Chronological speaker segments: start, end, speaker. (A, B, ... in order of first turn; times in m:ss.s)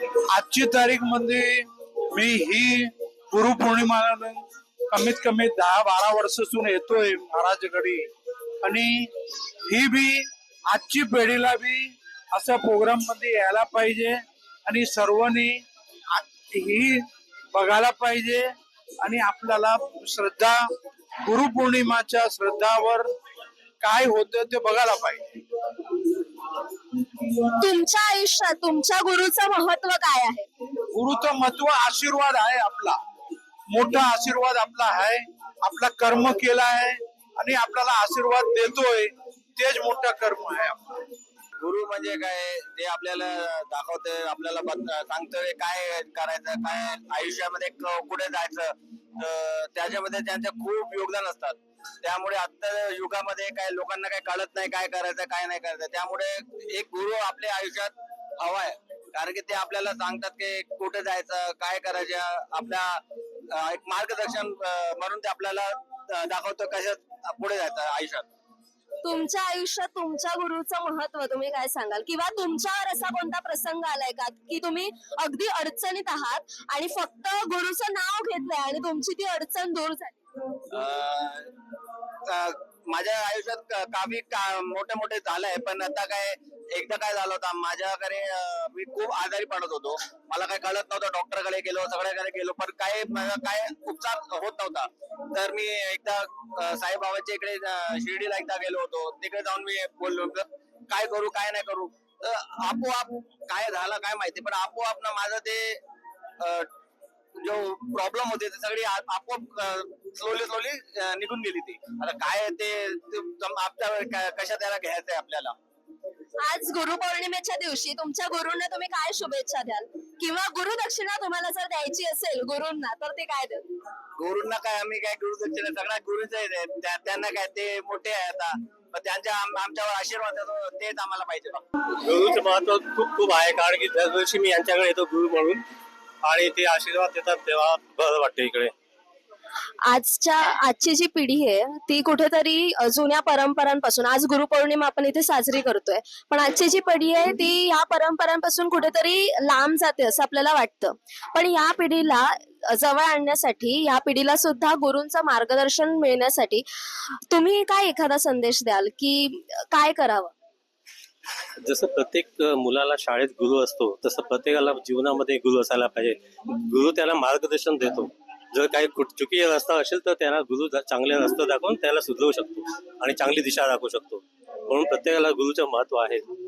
0:00.3-0:08.1 A
0:08.6-0:09.1 A
0:09.7-0:20.6 A
0:21.2-0:23.1 A
0:23.8-0:25.4 A
0:27.5-0:30.5 B
0:30.9-0:33.0 A
0:33.7-0:40.8 A
0:41.6-1:08.3 C
1:09.0-1:20.2 B
1:20.7-1:21.5 C
1:22.2-1:45.8 C
1:46.4-1:46.7 C
1:47.4-1:55.6 C
1:56.4-2:03.7 B
2:04.2-2:11.6 C
2:12.0-2:15.6 D
2:16.2-2:18.7 D
2:19.9-2:40.3 B
2:41.6-2:56.2 D